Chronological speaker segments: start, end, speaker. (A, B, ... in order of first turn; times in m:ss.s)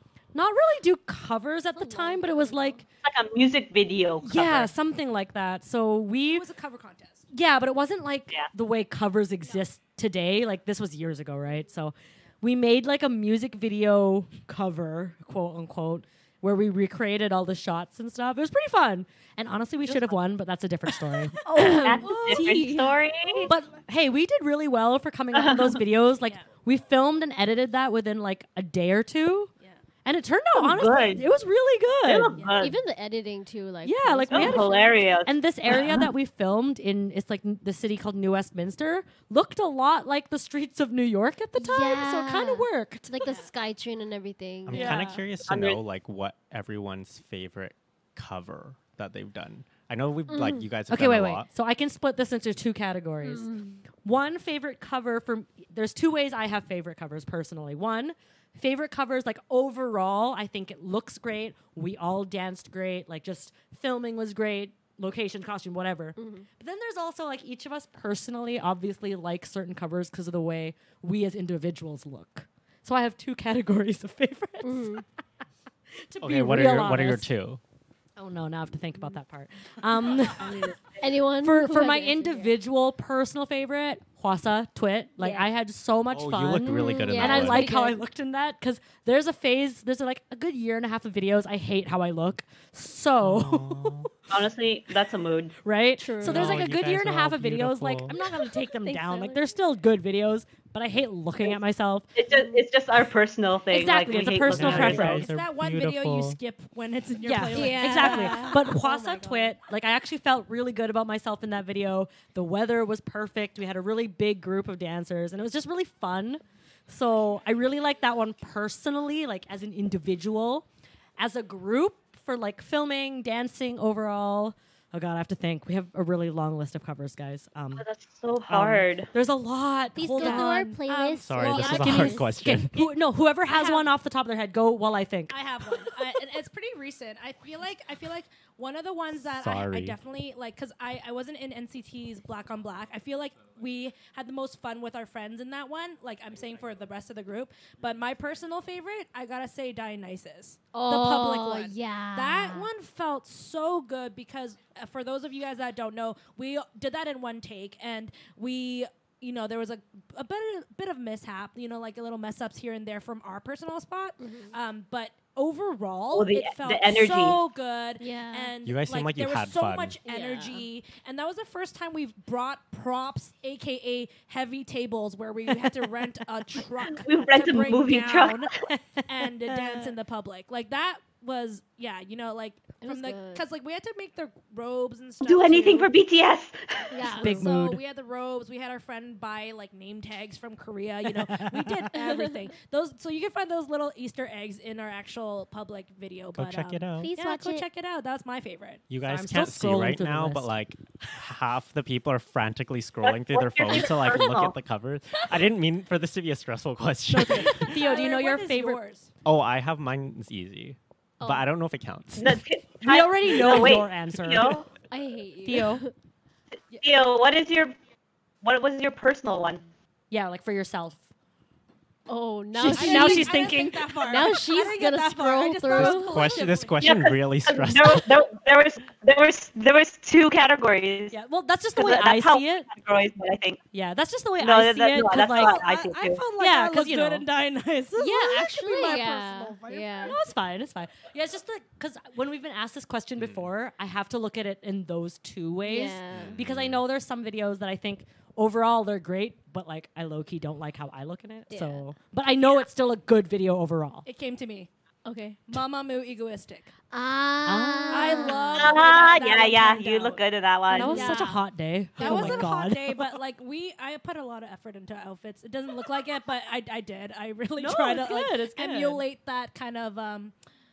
0:00.3-0:02.8 A
0:01.8-0:02.8 B
0:03.0-0:04.7 C
0:04.2-0:06.4 A
0:06.3-0:07.3 D
0:07.3-0:22.7 A
0:21.4-0:22.9 B
0:21.5-0:23.5 C
0:21.6-0:23.5 D
0:23.4-0:29.5 A
0:25.3-0:25.8 C
0:30.0-0:32.4 A
0:30.5-0:31.3 C
0:32.0-0:32.8 C
0:32.6-0:34.9 B
0:33.8-0:43.3 A
0:34.3-0:36.1 C
0:41.6-0:45.0 B
0:44.6-0:51.5 E
0:44.7-0:45.2 D
0:44.7-0:45.1 A
0:45.5-0:45.8 C
0:50.3-0:50.7 B
0:50.9-1:15.0 A
0:53.2-0:53.8 B
1:06.2-1:06.5 B
1:14.6-1:15.0 B
1:16.0-1:17.3 A
1:16.2-1:17.6 E
1:18.2-1:20.7 A
1:21.0-1:22.5 B
1:21.4-1:34.0 A
1:25.2-1:25.5 B
1:26.1-1:27.7 E
1:26.6-1:28.0 B
1:33.2-1:34.1 E
1:34.3-1:35.6 C
1:35.6-1:42.1 A
1:36.0-1:36.6 B
1:36.2-1:38.2 E
1:38.8-1:39.5 B
1:42.2-1:45.2 C
1:42.3-1:42.6 B
1:43.7-1:45.3 A
1:44.4-1:46.4 E
1:44.6-1:49.5 D
1:47.2-2:00.6 A
1:47.5-1:49.0 B
2:01.2-2:07.8 A
2:07.8-2:09.1 C
2:08.5-2:10.7 A
2:10.0-2:12.3 B
2:10.2-2:12.9 D
2:11.2-2:12.7 E
2:11.6-2:15.4 A
2:13.5-2:13.9 D
2:15.3-2:58.5 D
2:19.3-2:20.0 E
2:30.7-2:32.7 B
2:44.2-2:44.5 B
2:46.1-2:47.4 C
2:48.0-2:48.5 B
2:48.6-2:50.0 E
2:50.0-2:50.6 B
2:57.0-2:58.5 C
2:58.7-3:00.0 A
2:59.0-3:05.9 D
3:02.8-3:03.4 B
3:05.2-3:06.9 C
3:06.9-3:07.5 B
3:07.0-3:18.8 D
3:07.1-3:07.8 A
3:11.1-3:11.9 A
3:16.3-3:17.1 E
3:17.0-3:17.7 B
3:18.9-3:27.9 E
3:19.0-3:20.5 A
3:23.0-3:24.5 C
3:27.1-3:28.8 A
3:27.2-3:29.1 D
3:29.2-3:32.4 E
3:31.2-3:31.4 B
3:32.2-3:34.6 C
3:32.8-3:34.6 A
3:34.9-3:35.9 B
3:35.4-3:35.8 A
3:36.8-3:37.7 C
3:38.4-3:39.6 C
3:40.1-3:41.0 A
3:42.1-3:46.4 B
3:42.5-3:43.9 A
3:42.7-3:46.8 D
3:45.7-3:48.1 E
3:46.8-3:51.2 C
3:51.1-3:52.7 A
3:51.7-3:53.6 C
3:53.7-3:55.6 A
3:54.4-3:56.2 C
3:55.3-4:00.2 D
3:56.4-3:57.3 A
3:58.0-4:00.2 B
4:00.0-4:14.0 A
4:03.2-4:03.5 E
4:05.6-4:06.4 B
4:06.1-4:06.8 E
4:11.5-4:11.8 B
4:14.0-4:14.7 D
4:15.0-4:15.4 B
4:15.5-4:16.7 D
4:16.9-4:18.8 B
4:17.4-4:18.5 A
4:17.9-4:20.2 D
4:18.5-4:21.2 C
4:20.7-4:23.2 A
4:20.8-4:21.4 D
4:20.9-4:21.3 B
4:22.0-4:30.3 D
4:22.0-4:22.5 B
4:27.6-4:29.0 A